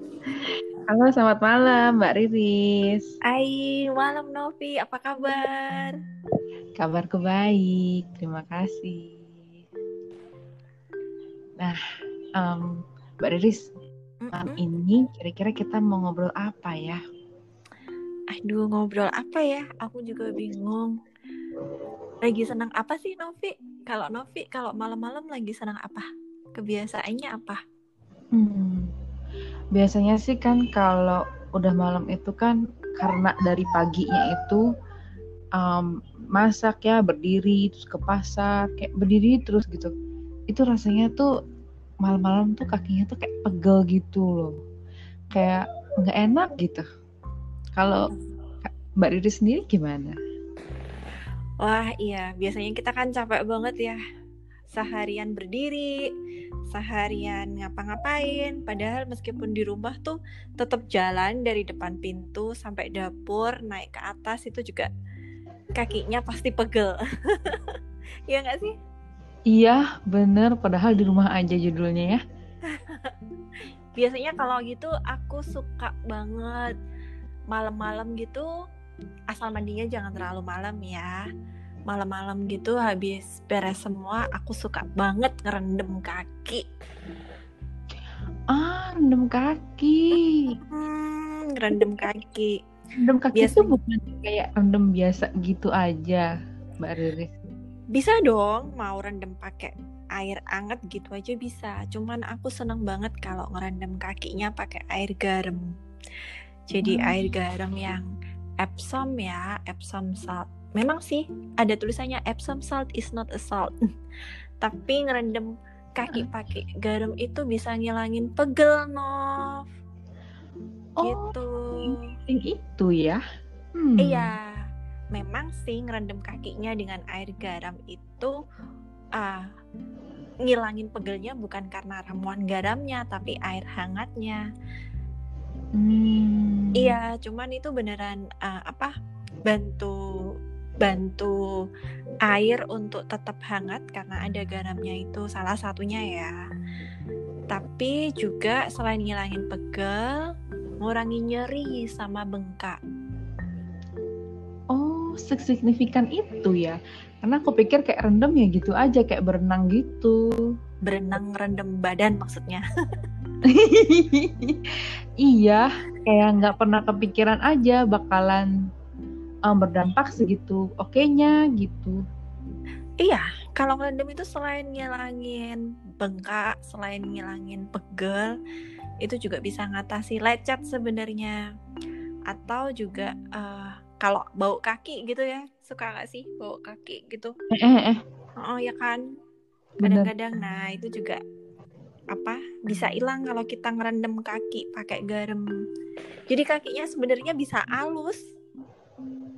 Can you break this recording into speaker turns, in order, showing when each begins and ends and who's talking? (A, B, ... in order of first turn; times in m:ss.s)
0:00.9-0:03.1 A
0:03.3-0:06.0 B
0:06.8-0:09.5 A
0:12.4-0:13.7 A
0:14.2-0:14.6 B
0:14.3-0:17.0 A
0:18.3-0:20.9 B
0:22.2-0:26.1 B
0:26.6-0:27.6 B
0:28.3-0:28.9 A
0:29.8-0:34.6 A
0:35.6-0:39.9 A
0:40.5-0:41.3 A
0:42.0-0:44.5 A
0:45.3-0:46.8 A
0:47.8-0:48.1 A
0:48.6-0:50.2 A
0:51.6-0:54.0 B
0:54.7-0:56.0 B
0:56.7-1:04.9 B
1:05.8-1:07.7 B
1:08.3-1:08.8 B
1:09.5-1:12.2 A
1:12.7-1:13.1 B
1:14.0-1:16.7 B
1:17.5-1:18.5 B
1:19.3-1:21.2 B
1:21.9-1:26.6 B
1:28.5-1:30.6 A
1:30.7-1:32.6 B
1:31.7-1:32.0 A
1:33.0-1:36.3 A
1:33.3-1:33.8 B
1:36.8-1:37.3 A
1:37.9-1:45.6 B
1:46.7-1:48.1 B
1:46.8-1:47.3 A
1:48.6-1:53.7 B
1:54.6-1:59.6 B
2:01.0-2:03.2 A
2:01.0-2:02.1 B
2:03.8-2:04.3 A
2:04.0-2:04.5 B
2:05.1-2:08.3 B
2:09.2-2:09.5 B
2:10.5-2:14.4 B
2:15.8-2:17.0 A
2:16.8-2:18.9 B
2:19.5-2:20.0 B
2:20.8-2:21.4 B
2:22.2-2:26.3 B
2:27.5-2:30.3 B
2:30.8-2:32.8 B
2:34.7-2:40.2 A
2:40.9-2:42.6 B
2:43.4-2:48.5 A
2:49.5-2:52.0 A
2:53.0-2:58.4 B
2:59.0-3:01.4 B
3:02.3-3:07.3 B
3:07.5-3:08.0 A
3:08.4-3:09.0 B
3:09.8-3:10.1 A
3:09.8-3:11.2 B
3:12.1-3:15.4 B
3:16.3-3:18.2 B